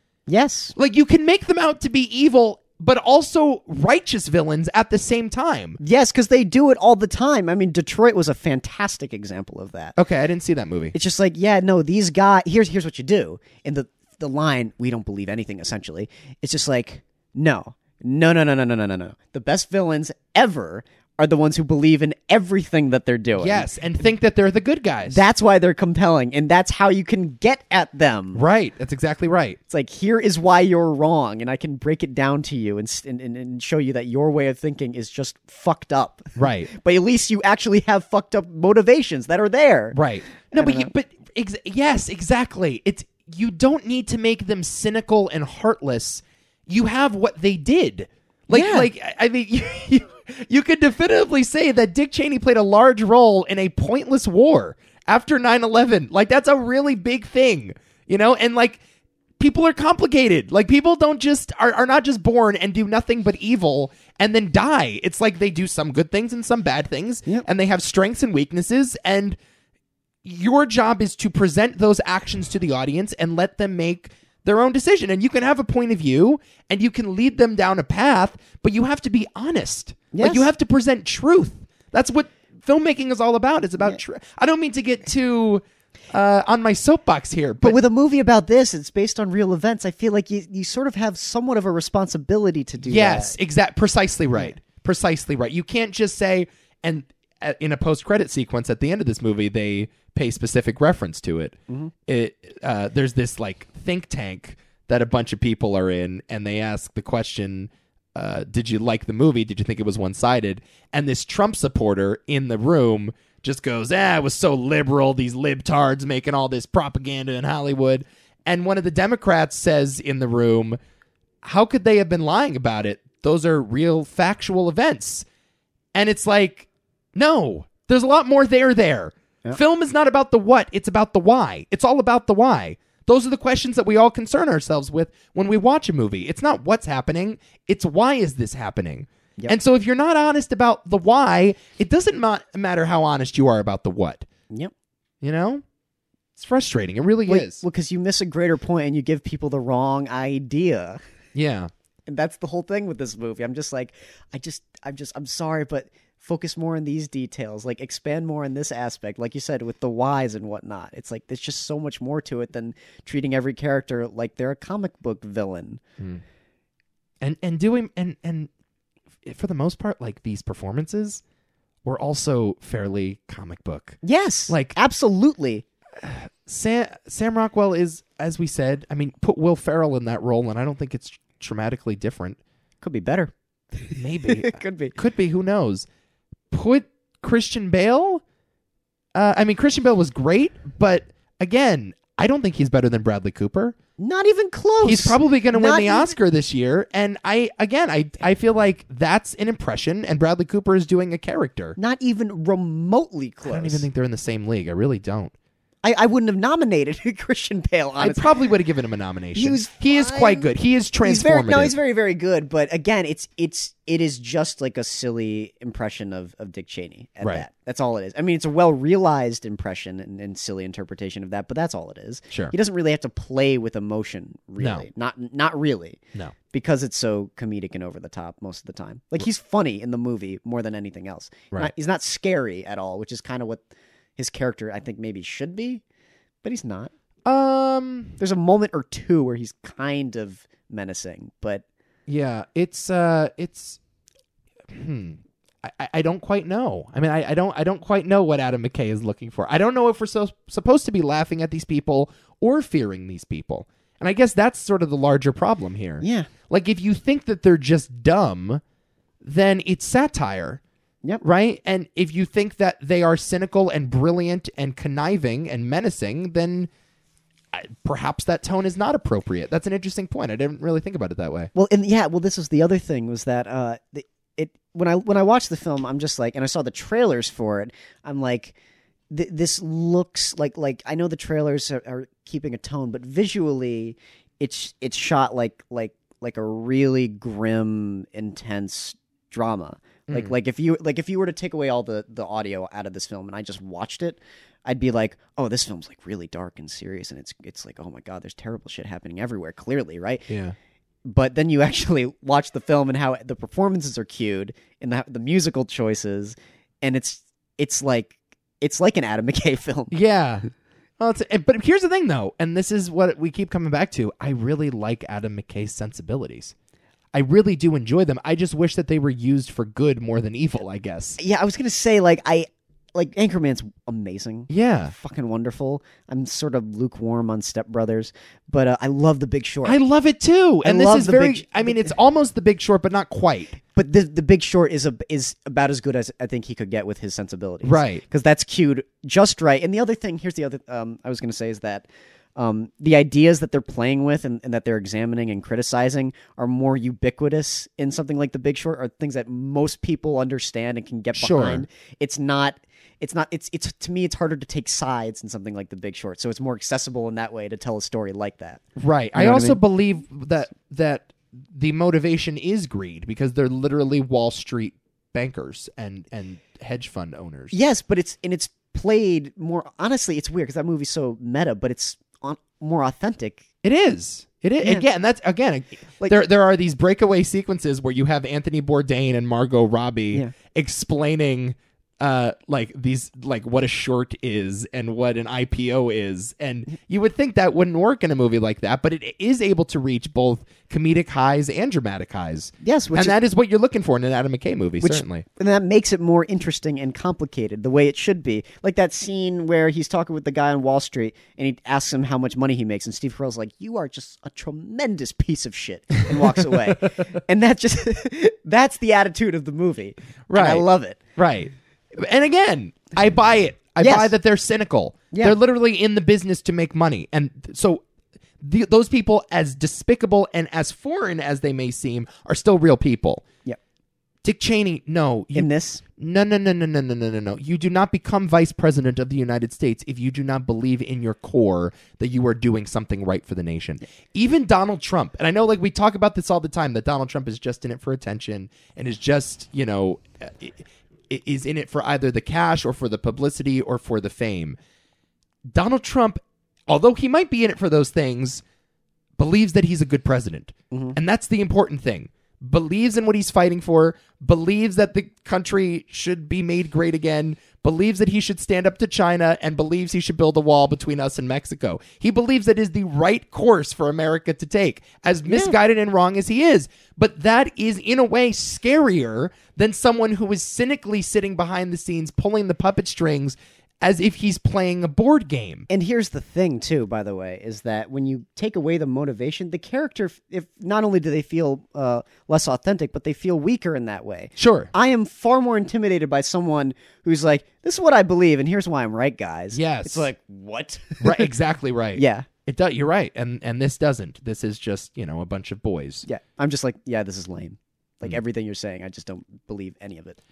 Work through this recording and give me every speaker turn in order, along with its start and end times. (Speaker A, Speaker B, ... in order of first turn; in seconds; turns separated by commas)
Speaker A: 0.3-0.7, Speaker B: 0.8-5.8, Speaker A: 5.8-9.9, Speaker B: 10.0-10.9, Speaker A: 10.9-23.7, Speaker B: 23.4-25.2, Speaker A: 25.1-28.4, Speaker B: 28.3-29.6, Speaker A: 29.7-40.9, Speaker B: 36.4-36.7, Speaker B: 39.9-58.8, Speaker A: 48.5-48.9, Speaker B: 59.4-69.4, Speaker B: 70.2-87.8, Speaker A: 80.1-80.5, Speaker A: 87.6-93.3, Speaker B: 92.8-120.8, Speaker B: 121.4-125.2, Speaker B: 125.9-144.3, Speaker B: 145.2-145.6, Speaker B: 146.3-147.6, Speaker A: 147.3-151.0, Speaker B: 151.3-151.7, Speaker A: 152.1-165.8, Speaker B: 167.2-168.5, Speaker B: 169.2-171.2, Speaker B: 171.8-174.0, Speaker A: 174.0-175.6, Speaker B: 174.5-174.7, Speaker B: 175.9-182.4, Speaker A: 182.8-184.9, Speaker B: 183.9-185.9, Speaker B: 186.5-188.2, Speaker B: 189.1-193.8, Speaker A: 194.0-196.1, Speaker B: 194.8-201.8, Speaker A: 201.8-203.8, Speaker B: 203.4-205.3, Speaker A: 205.8-208.2, Speaker B: 208.0-211.7, Speaker A: 209.3-210.5, Speaker A: 211.0-226.0, Speaker B: 224.6-224.9, Speaker A: 226.5-233.6, Speaker A: 234.2-235.8, Speaker A: 236.4-236.9, Speaker B: 237.2-238.2, Speaker A: 238.2-241.6, Speaker B: 242.1-243.8, Speaker B: 244.7-258.6, Speaker A: 256.0-256.3, Speaker B: 259.2-260.6, Speaker B: 261.2-266.7, Speaker B: 267.5-271.5, Speaker A: 271.5-278.5, Speaker A: 279.1-300.3, Speaker B: 300.3-300.6, Speaker A: 301.0-310.0, Speaker B: 309.9-310.5, Speaker B: 311.0-316.5, Speaker B: 317.1-321.2, Speaker A: 321.2-329.8, Speaker B: 324.5-324.9, Speaker B: 329.6-333.6, Speaker A: 330.6-331.9, Speaker A: 333.7-358.6, Speaker B: 337.6-338.0, Speaker B: 351.1-351.6, Speaker B: 358.8-367.5, Speaker A: 359.1-359.6, Speaker A: 367.5-373.4, Speaker B: 373.6-395.2, Speaker A: 392.6-393.2, Speaker A: 394.8-411.0, Speaker B: 406.2-406.7, Speaker B: 410.3-410.6, Speaker B: 411.1-417.8, Speaker A: 413.8-414.1, Speaker A: 415.1-415.4, Speaker B: 418.4-423.2, Speaker B: 424.2-444.6, Speaker A: 425.3-425.8, Speaker B: 445.5-448.4, Speaker B: 449.2-475.7, Speaker A: 450.7-451.0, Speaker A: 465.3-465.6, Speaker A: 475.7-491.3, Speaker B: 484.4-484.7, Speaker B: 489.5-490.1, Speaker B: 491.0-496.1, Speaker A: 491.9-492.3, Speaker A: 496.1-500.2